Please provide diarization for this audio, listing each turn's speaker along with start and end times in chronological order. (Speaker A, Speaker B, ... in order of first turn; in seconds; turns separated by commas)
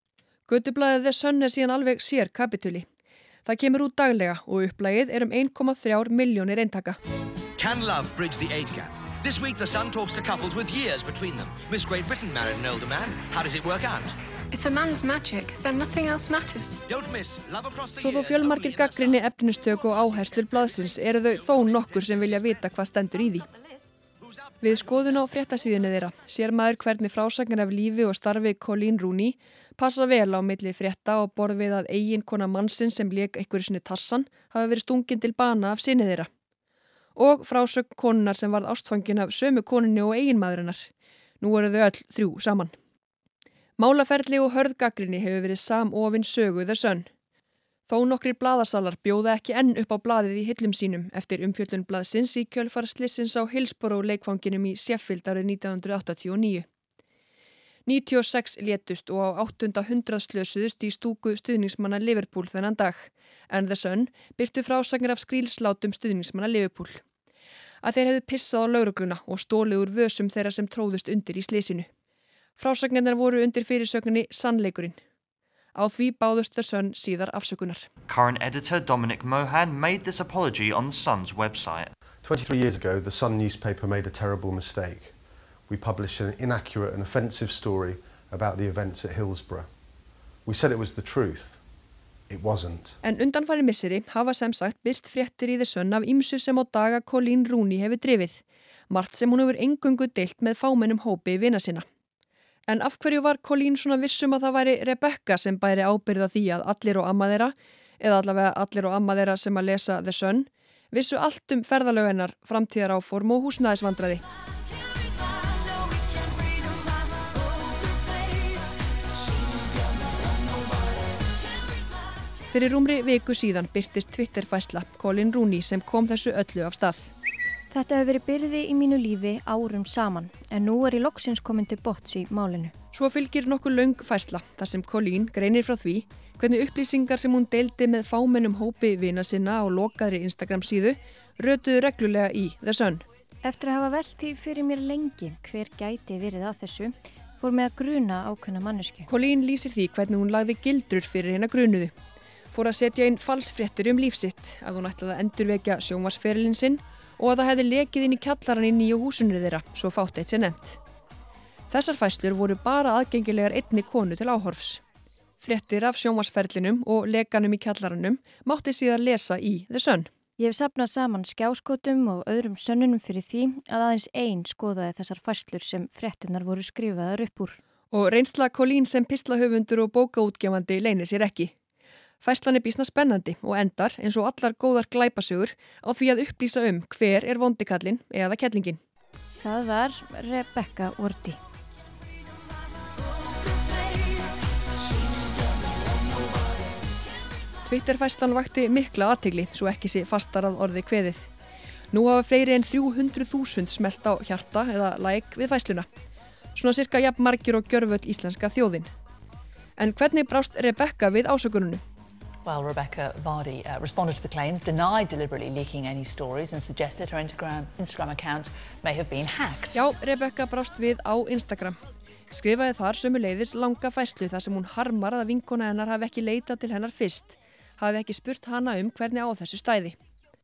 Speaker A: 0.5-2.9, Speaker A: 3.5-7.0, Speaker B: 7.6-14.2, Speaker C: 14.5-16.8, Speaker B: 16.9-19.2, Speaker A: 18.0-23.5, Speaker A: 24.6-36.3, Speaker A: 37.2-40.9, Speaker A: 41.4-42.7, Speaker A: 43.8-47.1, Speaker A: 47.9-56.7, Speaker A: 57.9-67.0, Speaker A: 67.8-71.9, Speaker A: 72.6-75.0, Speaker A: 75.8-77.9, Speaker D: 78.1-82.0, Speaker E: 82.2-85.2, Speaker E: 85.7-89.7, Speaker E: 90.5-91.6, Speaker E: 92.3-93.0, Speaker A: 93.0-101.9, Speaker A: 102.7-114.2, Speaker A: 122.5-127.1, Speaker F: 127.7-132.7, Speaker A: 132.9-143.0, Speaker F: 143.4-149.1, Speaker A: 149.1-151.9, Speaker A: 152.5-160.8, Speaker A: 161.7-164.8, Speaker A: 165.4-170.1, Speaker F: 170.4-177.6, Speaker A: 177.9-181.5, Speaker A: 182.2-188.8, Speaker F: 189.4-191.4, Speaker A: 197.7-201.3, Speaker A: 201.9-205.9, Speaker A: 206.6-208.9, Speaker A: 209.8-211.8, Speaker G: 212.4-219.9, Speaker A: 219.7-221.8, Speaker A: 222.3-230.0